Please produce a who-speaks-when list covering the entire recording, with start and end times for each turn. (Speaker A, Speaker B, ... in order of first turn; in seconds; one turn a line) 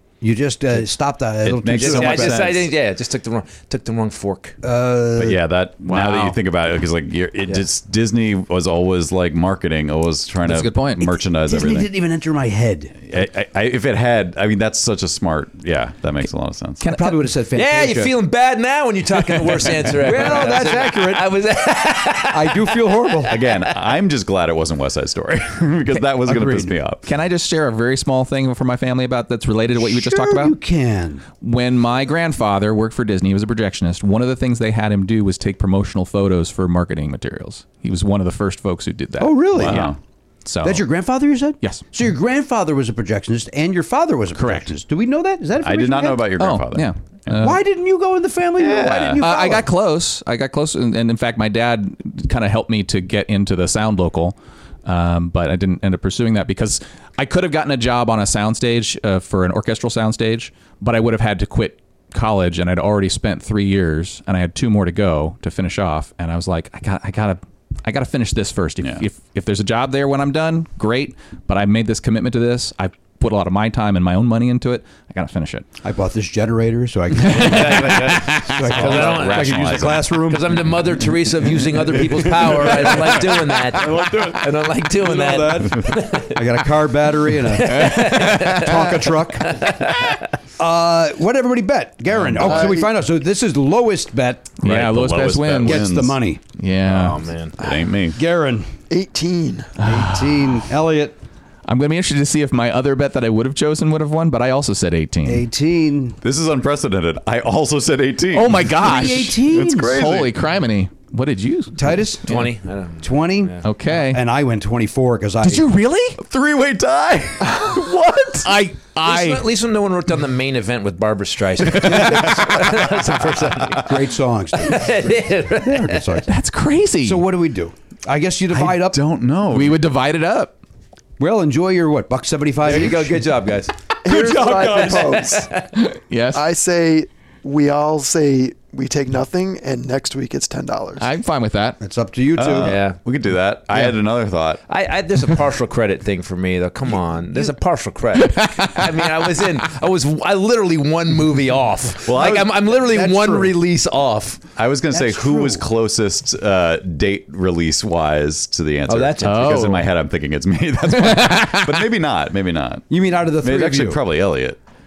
Speaker A: 0.2-2.6
Speaker B: 1.4-2.7
Speaker C: 1.7-4.6
Speaker A: 4.6-5.4
Speaker B: 5.2-11.9
Speaker D: 5.8-6.4
Speaker D: 10.4-11.1
Speaker A: 11.4-12.9
Speaker B: 13.1-16.8
Speaker D: 16.8-17.2
Speaker A: 16.8-18.2
Speaker C: 17.5-23.7
Speaker A: 20.0-21.3
Speaker A: 22.3-23.3
Speaker B: 23.3-27.1
Speaker A: 26.2-26.7
Speaker D: 27.1-30.6
Speaker A: 29.8-31.2
Speaker D: 31.4-39.9
Speaker A: 39.2-39.9
Speaker B: 39.6-40.0
Speaker D: 40.5-40.8
Speaker A: 40.6-46.4
Speaker D: 44.4-44.6
Speaker B: 45.6-47.5
Speaker D: 46.4-47.6
Speaker A: 47.3-49.7
Speaker B: 48.6-49.2
Speaker D: 49.2-75.7
Speaker A: 75.8-80.6
Speaker D: 77.2-78.7
Speaker C: 77.3-86.8
Speaker B: 78.7-80.2
Speaker B: 82.1-86.0
Speaker A: 86.2-89.6
Speaker C: 87.3-90.3
Speaker D: 87.8-88.7
Speaker A: 90.6-94.5
Speaker E: 92.4-92.9
Speaker D: 94.6-95.9
Speaker B: 94.6-96.2
Speaker A: 95.7-96.4
Speaker D: 96.6-97.2
Speaker C: 96.8-97.6
Speaker B: 97.6-98.2
Speaker A: 98.2-98.7
Speaker E: 98.9-99.7
Speaker A: 99.8-101.2
Speaker D: 99.8-100.6
Speaker D: 101.7-105.4
Speaker A: 105.2-106.2
Speaker B: 106.2-110.4
Speaker D: 108.3-112.5
Speaker A: 108.8-110.0
Speaker A: 111.8-112.3
Speaker C: 112.2-113.6
Speaker A: 113.0-115.7
Speaker D: 113.6-114.2
Speaker D: 115.4-116.2
Speaker B: 116.2-118.5
Speaker D: 118.4-119.5
Speaker C: 119.0-124.0
Speaker D: 121.7-122.2
Speaker B: 121.8-122.9
Speaker A: 123.1-124.9
Speaker B: 123.4-123.7
Speaker C: 124.6-126.2
Speaker A: 125.6-126.3
Speaker D: 126.3-127.2
Speaker A: 127.0-129.0
Speaker B: 128.5-129.8
Speaker D: 129.5-130.5
Speaker A: 131.2-133.2
Speaker C: 132.6-135.7
Speaker A: 134.0-135.3
Speaker E: 134.1-135.5
Speaker D: 135.8-136.4
Speaker E: 136.3-141.1
Speaker D: 141.0-141.8
Speaker A: 141.8-142.7
Speaker B: 142.4-144.6
Speaker C: 142.6-143.0
Speaker C: 144.7-154.5
Speaker D: 148.2-149.2
Speaker B: 152.0-152.5
Speaker A: 152.2-153.6
Speaker B: 154.6-164.6
Speaker A: 154.9-155.7
Speaker C: 158.9-159.7
Speaker D: 159.2-159.9
Speaker D: 160.9-161.9
Speaker A: 162.9-164.0